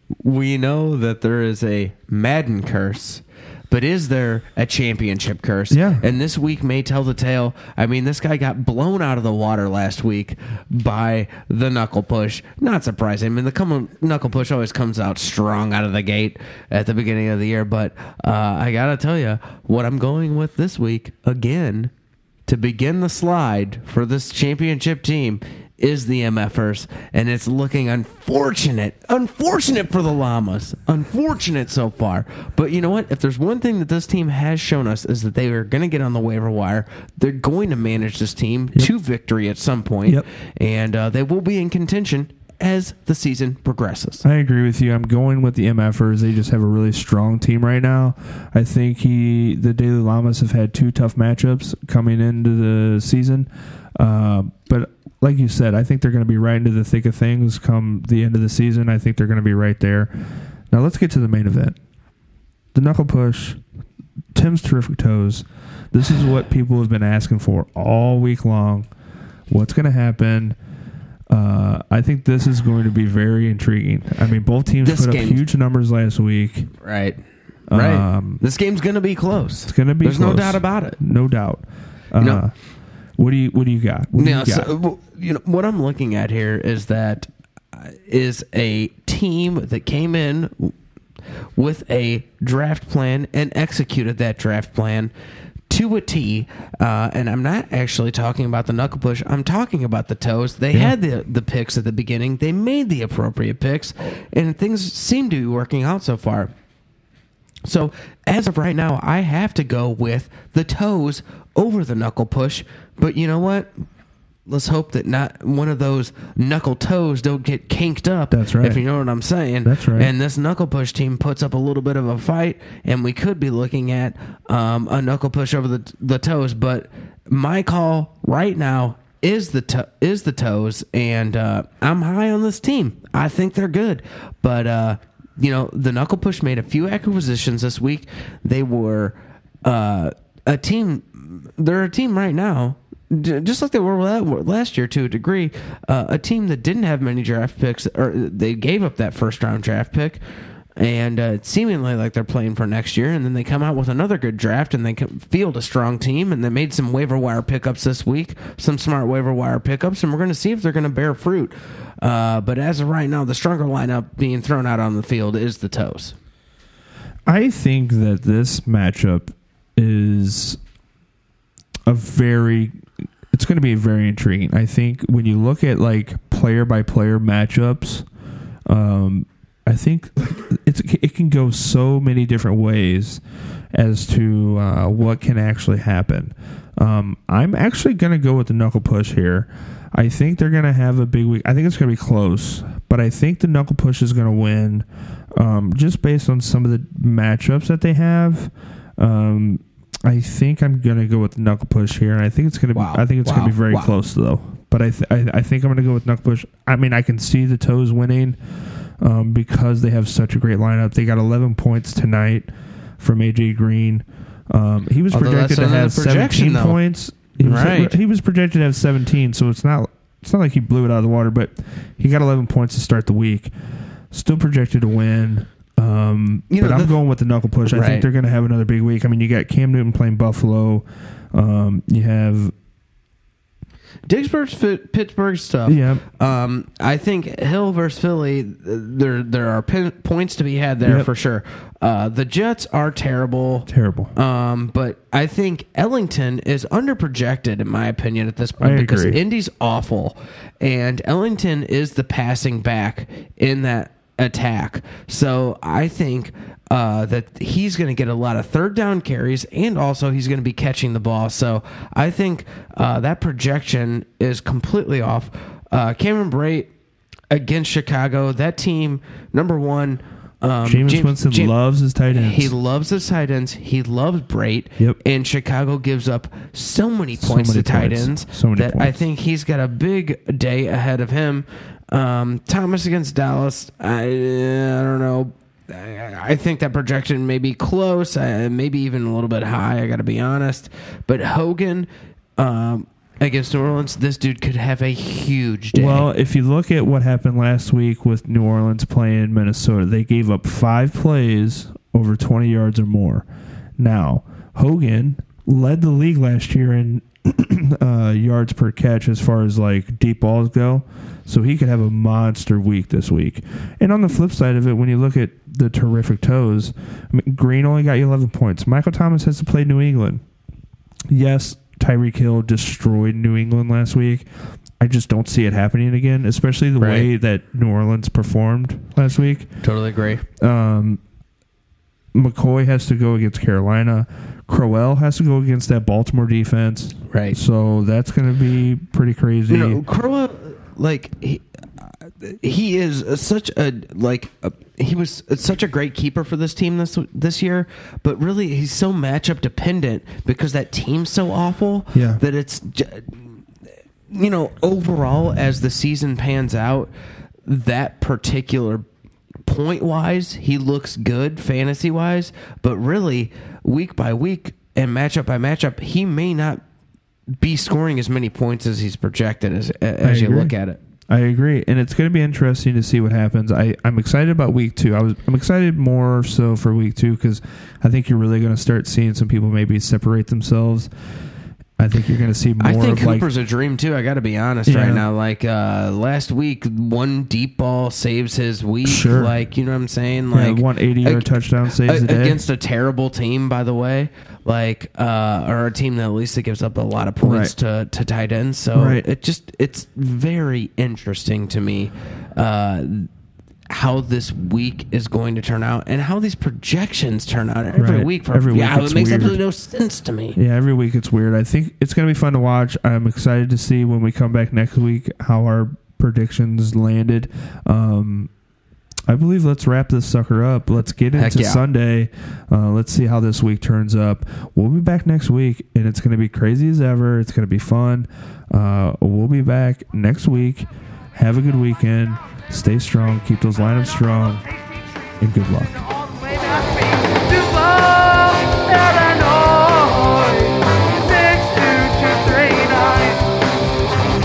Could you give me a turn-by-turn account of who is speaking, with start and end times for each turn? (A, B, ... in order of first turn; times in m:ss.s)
0:00.2-0:21.9 A
0:05.7-0:06.0 B
0:22.4-0:44.2 A
0:44.2-1:00.1 B
1:00.7-1:01.8 B
1:02.7-1:03.6 B
1:04.3-1:08.9 B
1:09.5-1:10.6 B
1:11.3-1:16.7 B
1:14.8-1:15.4 A
1:16.8-1:17.2 A
1:17.7-1:18.4 B
1:17.7-1:21.0 A
1:19.7-1:22.5 B
1:22.2-1:22.4 A
1:23.2-1:24.7 B
1:24.1-1:30.7 A
1:31.6-1:35.1 A
1:35.7-1:46.5 A
1:47.6-1:53.8 A
1:54.5-2:30.2 A
1:58.3-1:58.8 B
1:59.6-2:00.1 B
2:30.8-2:46.1 A
2:47.2-2:50.6 B
2:51.9-2:52.7 B
2:53.3-2:58.0 B
2:58.6-3:03.2 B
3:03.7-3:28.4 B
3:22.7-3:23.9 A
3:29.0-3:43.5 B
3:35.1-3:36.8 A
3:37.3-3:38.0 A
3:44.1-3:52.5 B
3:46.5-3:47.0 A
3:47.6-3:48.1 A
3:54.0-4:26.7 A
3:55.6-3:56.0 B
4:03.7-4:04.1 B
4:08.6-4:09.2 B
4:27.3-4:31.5 A
4:30.6-4:32.5 B
4:32.1-4:56.1 A
4:37.2-4:39.0 B
4:55.7-5:03.2 B
5:03.8-5:20.2 B
5:21.1-5:24.3 B
5:24.8-5:29.5 B
5:26.8-5:27.1 A
5:29.6-5:30.2 A
5:30.4-5:31.0 B
5:32.1-5:39.8 B
5:37.1-5:37.4 A
5:39.5-5:41.4 A
5:42.0-5:53.3 A
5:51.9-5:52.2 B
5:54.1-5:56.9 A
5:57.4-5:58.8 A
5:59.4-6:06.6 A
6:07.4-6:10.8 A
6:10.0-6:10.5 B
6:11.1-6:20.9 B
6:21.8-6:23.3 B
6:22.6-6:43.1 A
6:24.7-6:25.0 B
6:28.8-6:29.3 B
6:30.3-6:32.4 B
6:37.2-6:37.5 B
6:38.7-6:39.0 B
6:43.7-6:50.4 A
6:47.7-6:49.4 B
6:50.4-6:58.3 B
6:59.1-7:14.4 B
7:01.2-7:01.6 A
7:14.4-7:15.1 C
7:15.2-7:15.8 B
7:15.7-7:23.3 C